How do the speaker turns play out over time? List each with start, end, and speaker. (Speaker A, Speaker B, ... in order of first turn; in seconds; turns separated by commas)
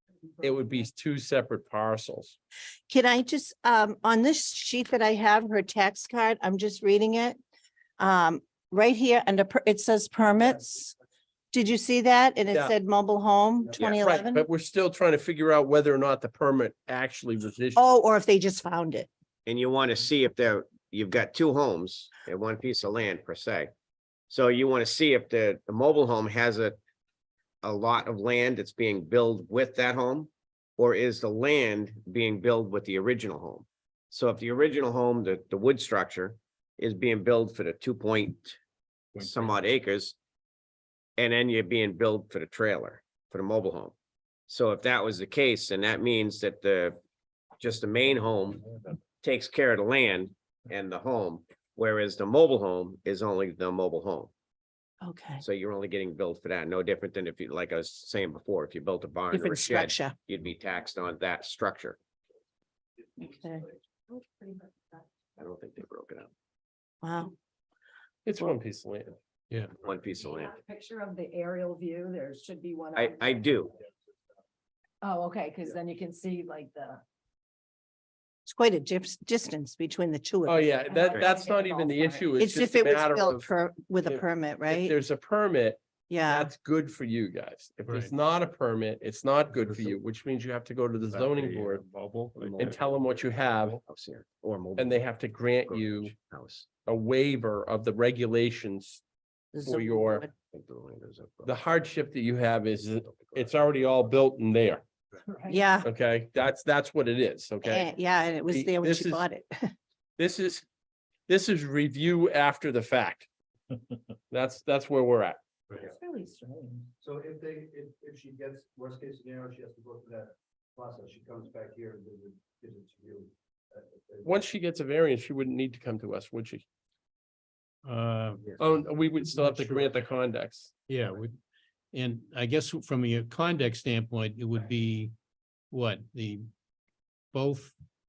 Speaker A: 0.4-2.4, Speaker B: 2.9-7.3, Speaker B: 8.0-10.9, Speaker B: 11.5-14.4, Speaker A: 13.8-17.9, Speaker B: 17.8-19.1, Speaker C: 19.4-23.7, Speaker C: 24.3-26.8, Speaker C: 27.6-38.6, Speaker C: 39.1-40.1, Speaker C: 41.2-43.9, Speaker C: 44.5-47.0, Speaker C: 47.6-48.6, Speaker C: 49.2-54.3, Speaker B: 55.0-55.4, Speaker C: 55.4-62.0, Speaker B: 59.3-60.1, Speaker B: 63.2-63.6, Speaker D: 64.1-65.1, Speaker C: 65.4-66.3, Speaker B: 67.0-67.3, Speaker A: 68.2-69.2, Speaker E: 69.5-69.8, Speaker C: 69.8-70.5, Speaker D: 70.1-73.6, Speaker C: 72.9-73.7, Speaker D: 75.0-77.0, Speaker B: 78.5-80.7, Speaker A: 80.5-83.5, Speaker D: 80.8-82.3, Speaker B: 82.4-85.0, Speaker A: 84.0-91.8, Speaker B: 86.1-86.5, Speaker E: 87.9-88.1, Speaker E: 91.8-92.6, Speaker C: 92.4-92.7, Speaker A: 92.5-93.8, Speaker C: 93.8-95.0, Speaker A: 94.8-96.1, Speaker C: 95.7-96.7, Speaker A: 96.8-99.0, Speaker B: 99.5-100.3, Speaker A: 99.6-100.2, Speaker C: 100.5-101.5, Speaker A: 101.5-104.8, Speaker C: 103.0-103.6, Speaker B: 105.5-105.9, Speaker A: 105.8-107.8, Speaker B: 107.6-109.7, Speaker A: 108.5-109.2, Speaker A: 110.2-110.6, Speaker A: 111.3-113.3, Speaker A: 114.3-115.4, Speaker D: 115.8-116.9, Speaker F: 117.0-124.4, Speaker A: 124.2-126.6, Speaker E: 127.8-128.5, Speaker A: 128.6-130.7, Speaker E: 129.3-129.9, Speaker E: 130.9-131.3, Speaker E: 131.9-135.1, Speaker E: 135.7-136.5, Speaker E: 137.3-137.7